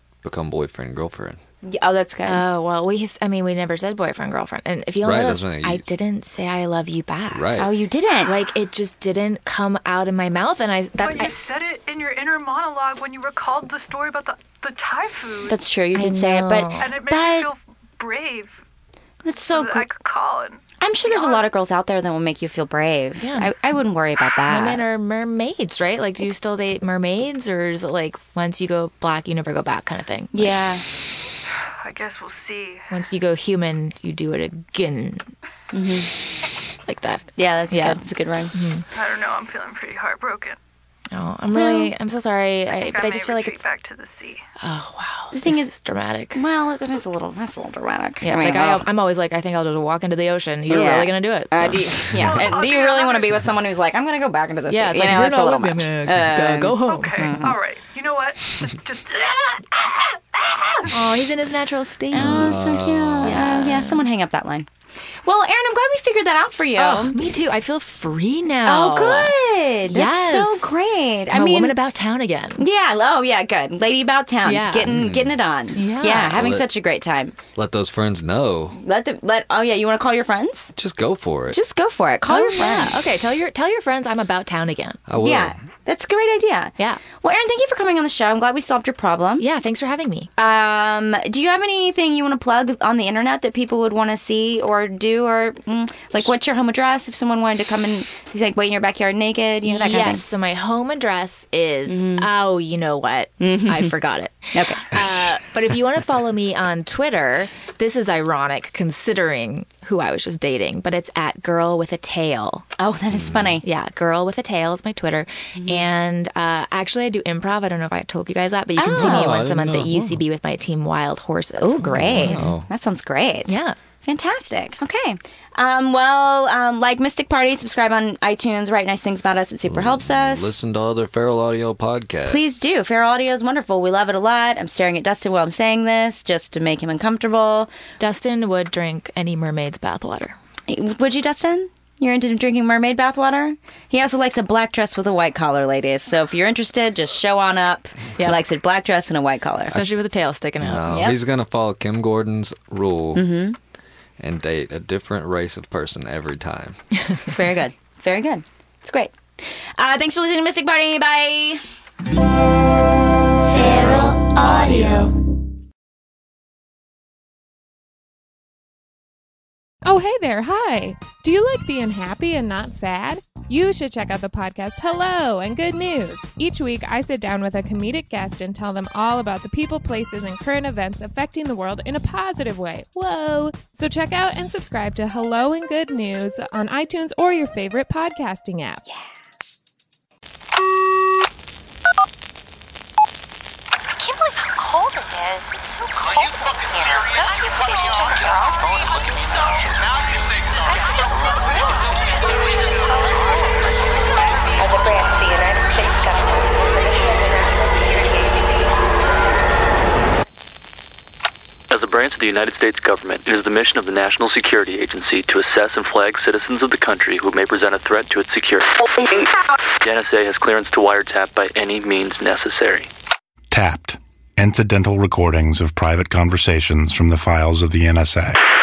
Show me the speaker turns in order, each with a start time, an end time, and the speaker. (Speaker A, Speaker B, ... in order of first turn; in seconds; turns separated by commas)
Speaker A: 0.2-1.4, Speaker B: 1.6-2.4, Speaker C: 2.2-7.5, Speaker A: 5.0-5.9, Speaker A: 7.3-7.7, Speaker B: 7.5-8.5, Speaker C: 8.2-11.3, Speaker D: 11.0-15.6, Speaker B: 15.4-17.5, Speaker C: 15.9-16.9, Speaker D: 16.8-18.6, Speaker B: 19.2-19.9, Speaker D: 19.5-21.5, Speaker B: 20.8-24.8, Speaker C: 23.2-23.5, Speaker C: 24.4-30.6, Speaker B: 30.3-30.8, Speaker D: 31.8-32.9, Speaker C: 32.9-35.3, Speaker B: 35.7-36.1, Speaker C: 36.9-38.0, Speaker B: 37.4-38.5, Speaker C: 38.5-38.8, Speaker D: 38.9-40.6, Speaker C: 41.1-43.6, Speaker B: 41.5-41.9, Speaker D: 42.7-44.4, Speaker C: 44.6-46.4, Speaker B: 45.3-45.7, Speaker B: 46.3-48.9, Speaker C: 48.2-52.2, Speaker B: 50.7-57.6, Speaker D: 52.2-53.5, Speaker C: 54.7-57.3, Speaker D: 56.8-60.9, Speaker C: 60.9-64.0, Speaker B: 62.1-64.7, Speaker A: 62.1-63.5, Speaker B: 65.2-67.2, Speaker C: 66.8-70.8, Speaker B: 68.6-71.8, Speaker C: 71.3-72.6, Speaker B: 72.6-77.3, Speaker C: 74.4-75.0, Speaker A: 74.9-75.3, Speaker C: 75.7-76.5, Speaker A: 76.3-76.7, Speaker A: 77.5-78.8, Speaker B: 78.7-80.7, Speaker A: 80.8-81.6, Speaker B: 81.5-83.0, Speaker C: 82.2-85.0, Speaker A: 85.1-85.6, Speaker B: 85.2-89.5, Speaker C: 89.4-90.3, Speaker B: 90.4-100.2, Speaker C: 99.6-112.7, Speaker B: 101.9-102.3, Speaker B: 103.4-103.9, Speaker B: 104.5-104.9, Speaker B: 112.8-113.7, Speaker A: 113.1-113.6, Speaker C: 113.6-122.5, Speaker B: 115.5-115.9, Speaker B: 118.8-119.4, Speaker A: 118.9-120.2, Speaker B: 121.6-130.5, Speaker A: 121.9-122.7, Speaker C: 123.5-123.8, Speaker A: 129.7-132.4, Speaker B: 132.2-137.7, Speaker C: 138.0-140.3, Speaker B: 140.7-149.8, Speaker C: 148.2-148.4, Speaker C: 149.7-150.9, Speaker A: 150.6-153.3, Speaker B: 150.9-151.2, Speaker B: 153.1-153.6, Speaker A: 154.2-156.8, Speaker B: 157.2-161.6, Speaker B: 163.4-165.1, Speaker E: 169.8-188.8, Speaker F: 193.9-199.9, Speaker F: 200.6-208.8, Speaker G: 211.7-218.7, Speaker G: 219.8-222.9, Speaker H: 223.5-228.4